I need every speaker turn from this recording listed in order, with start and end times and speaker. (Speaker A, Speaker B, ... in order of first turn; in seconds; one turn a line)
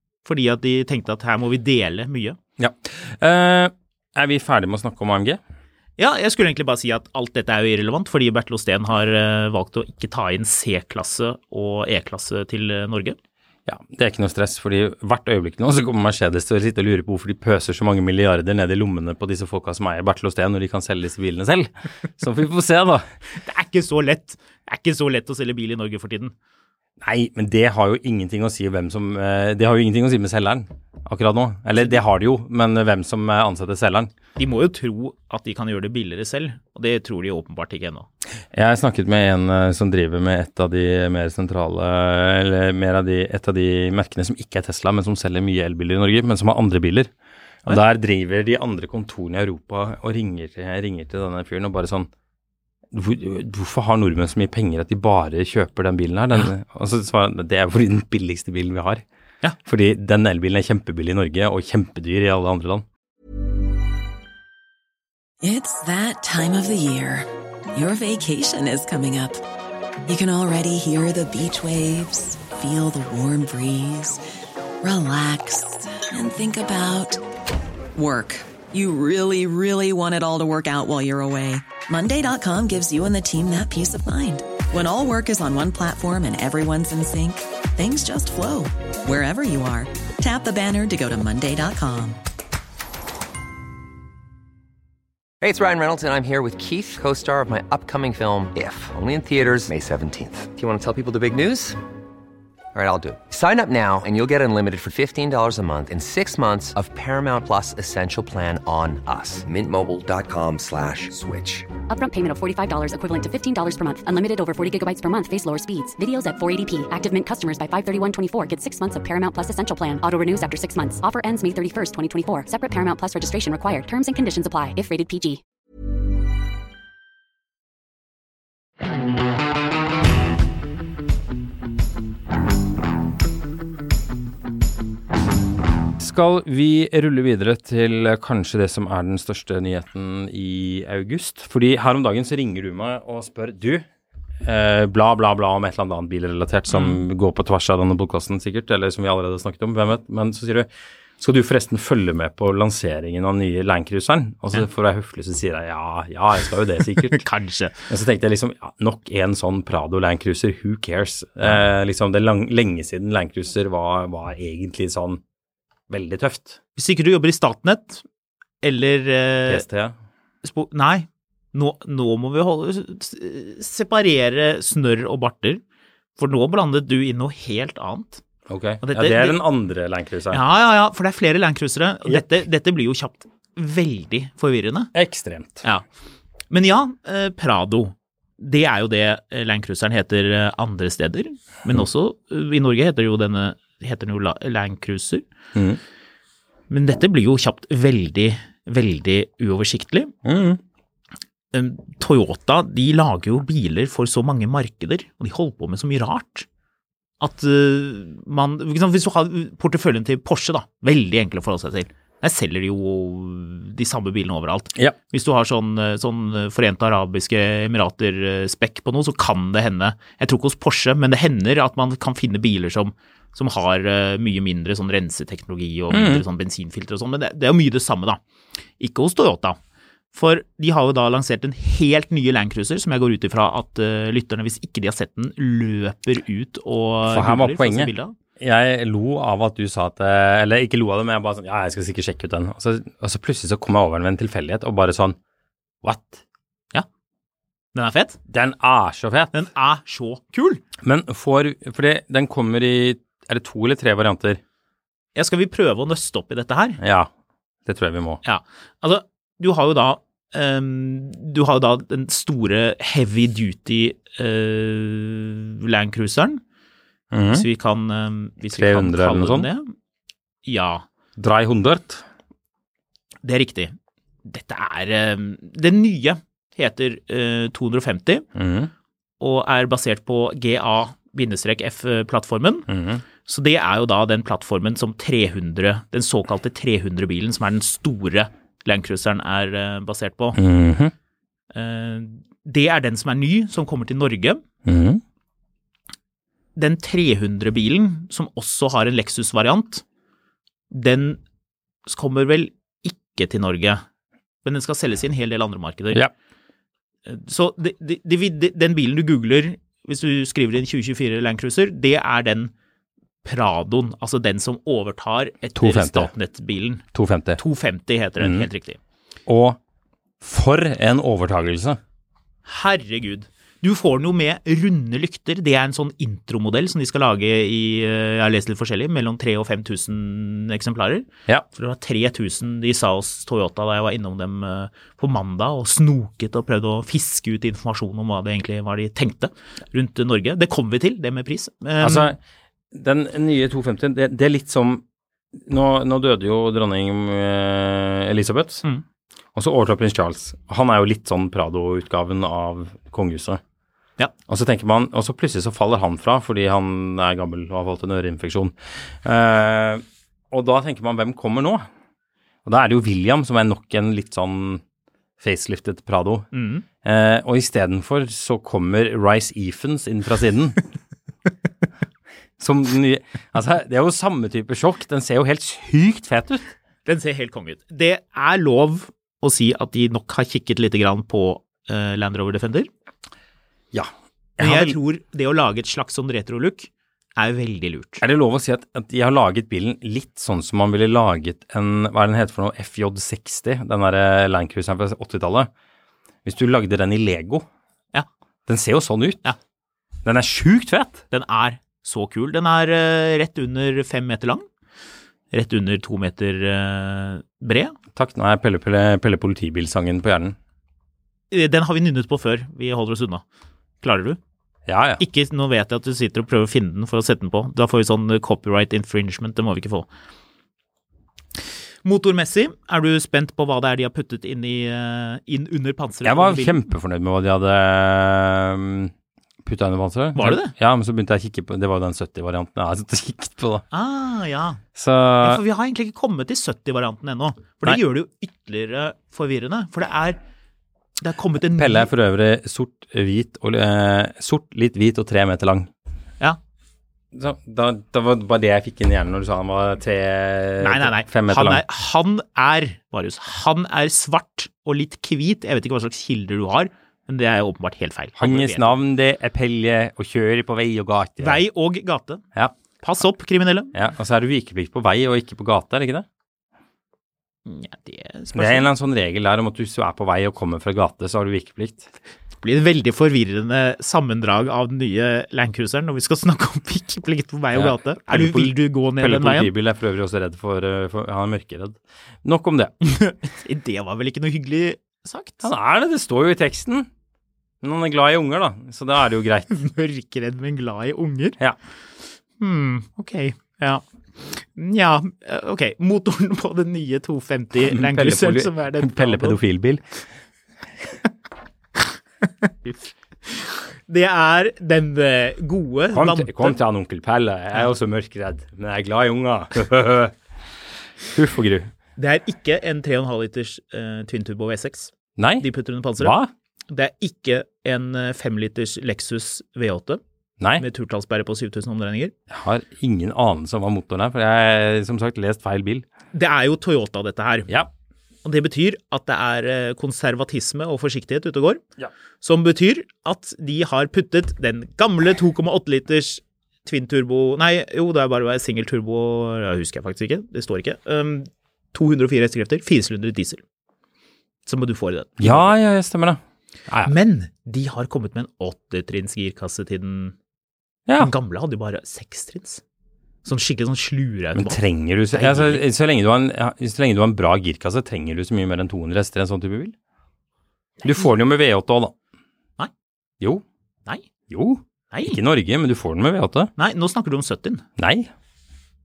Speaker A: 0.2-2.4
Speaker B: 2.6-5.4
Speaker A: 6.0-13.2
Speaker B: 13.7-23.1
Speaker A: 23.4-26.3
Speaker B: 27.0-34.1
Speaker A: 34.4-38.1
Speaker B: 38.5-47.1
Speaker B: 47.7-52.1
Speaker B: 52.9-59.0
Speaker B: 59.6-62.9
Speaker C: 65.4-69.4
Speaker C: 70.1-74.2
Speaker C: 74.8-77.2
Speaker C: 78.0-92.2
Speaker D: 95.4-101.8
Speaker D: 102.7-111.7
Speaker E: 111.9-125.4
Speaker B: 136.0-143.9
Speaker B: 144.4-157.2
Speaker A: 146.7-147.0
Speaker A: 157.0-157.8
Speaker B: 157.9-165.2
Speaker B: 165.9-166.6
Speaker A: 166.8-168.0
Speaker A: 168.6-169.6
Speaker B: 169.5-169.9
Speaker A: 170.4-175.6
Speaker A: 176.2-178.2
Speaker B: 178.5-180.4
Speaker A: 178.8-179.4
Speaker A: 180.3-184.9
Speaker B: 184.9-185.7
Speaker A: 186.5-195.2
Speaker B: 195.6-195.8
Speaker A: 196.7-200.1
Speaker B: 200.2-200.6
Speaker A: 201.5-206.5
Speaker A: 207.2-228.2
Speaker B: 225.9-226.2
Speaker A: 228.8-229.6
Speaker A: 230.1-238.2
Speaker B: 237.1-245.2
Speaker B: 245.8-246.2
Speaker A: 247.8-248.2
Speaker B: 248.3-249.3
Speaker A: 249.3-250.6
Speaker B: 250.8-254.4
Speaker A: 255.2-256.8
Speaker B: 256.8-257.1
Speaker B: 257.7-258.2
Speaker A: 258.2-266.4
Speaker B: 267.1-267.5
Speaker A: 267.3-269.7
Speaker B: 268.5-269.5
Speaker A: 270.5-270.8
Speaker B: 271.2-272.0
Speaker A: 273.2-278.3
Speaker B: 278.4-278.7
Speaker A: 279.2-282.7
Speaker B: 282.7-283.0
Speaker A: 283.2-290.4
Speaker B: 290.4-290.9
Speaker A: 291.5-294.4
Speaker B: 294.7-295.0
Speaker A: 296.6-299.8
Speaker A: 300.7-301.2
Speaker A: 301.9-303.8
Speaker A: 304.4-306.1
Speaker A: 307.1-312.5
Speaker A: 313.2-316.8
Speaker B: 315.6-316.1
Speaker B: 316.9-317.4
Speaker A: 317.4-318.8
Speaker B: 318.2-318.5
Speaker B: 319.3-319.6
Speaker B: 320.2-321.8
Speaker A: 322.5-342.1
Speaker B: 341.8-342.2
Speaker B: 342.7-344.8
Speaker B: 345.4-348.6
Speaker B: 349.4-353.4
Speaker B: 354.3-361.7
Speaker B: 362.4-364.6
Speaker B: 365.2-366.3
Speaker A: 366.3-366.6
Speaker B: 366.8-370.6
Speaker B: 372.4-376.5
Speaker A: 376.9-382.7
Speaker B: 383.7-384.8
Speaker A: 384.4-388.0
Speaker B: 388.0-395.5
Speaker B: 396.2-397.5
Speaker B: 398.5-399.2
Speaker B: 400.0-401.0
Speaker A: 401.1-404.4
Speaker A: 405.3-407.8
Speaker B: 407.9-410.4
Speaker A: 411.3-413.2
Speaker A: 413.8-414.2
Speaker B: 414.7-415.0
Speaker A: 415.0-419.9
Speaker A: 421.8-426.6
Speaker B: 426.0-428.9
Speaker B: 429.4-433.6
Speaker A: 430.1-430.5
Speaker A: 433.7-434.6
Speaker B: 434.8-435.4
Speaker A: 435.2-440.2
Speaker A: 441.0-441.9
Speaker B: 441.5-445.7
Speaker B: 447.1-451.6
Speaker A: 450.6-458.8
Speaker B: 458.2-461.4
Speaker A: 461.2-462.2
Speaker A: 462.8-463.7
Speaker B: 463.7-466.1
Speaker A: 467.5-468.7
Speaker B: 468.3-471.9
Speaker A: 472.4-479.5
Speaker B: 477.5-482.7
Speaker A: 482.8-485.5
Speaker B: 485.4-486.9
Speaker B: 487.6-489.5
Speaker A: 489.5-491.4
Speaker A: 492.4-499.4
Speaker B: 497.6-499.8
Speaker A: 502.3-506.6
Speaker B: 505.9-510.1
Speaker B: 511.1-511.7
Speaker A: 512.0-516.2
Speaker B: 515.2-515.5
Speaker B: 516.0-516.3
Speaker A: 516.7-520.0
Speaker A: 520.6-522.1
Speaker B: 522.3-525.9
Speaker A: 526.1-527.5
Speaker A: 528.2-531.6
Speaker A: 532.2-543.4
Speaker A: 544.5-545.5
Speaker B: 545.2-546.9
Speaker A: 546.9-550.1
Speaker B: 550.9-551.1
Speaker A: 551.0-552.6
Speaker A: 553.2-554.6
Speaker B: 554.3-559.8
Speaker A: 555.1-555.6
Speaker A: 560.8-561.1
Speaker B: 560.8-561.9
Speaker B: 564.3-566.5
Speaker A: 564.9-565.2
Speaker A: 566.6-567.6
Speaker B: 567.8-568.1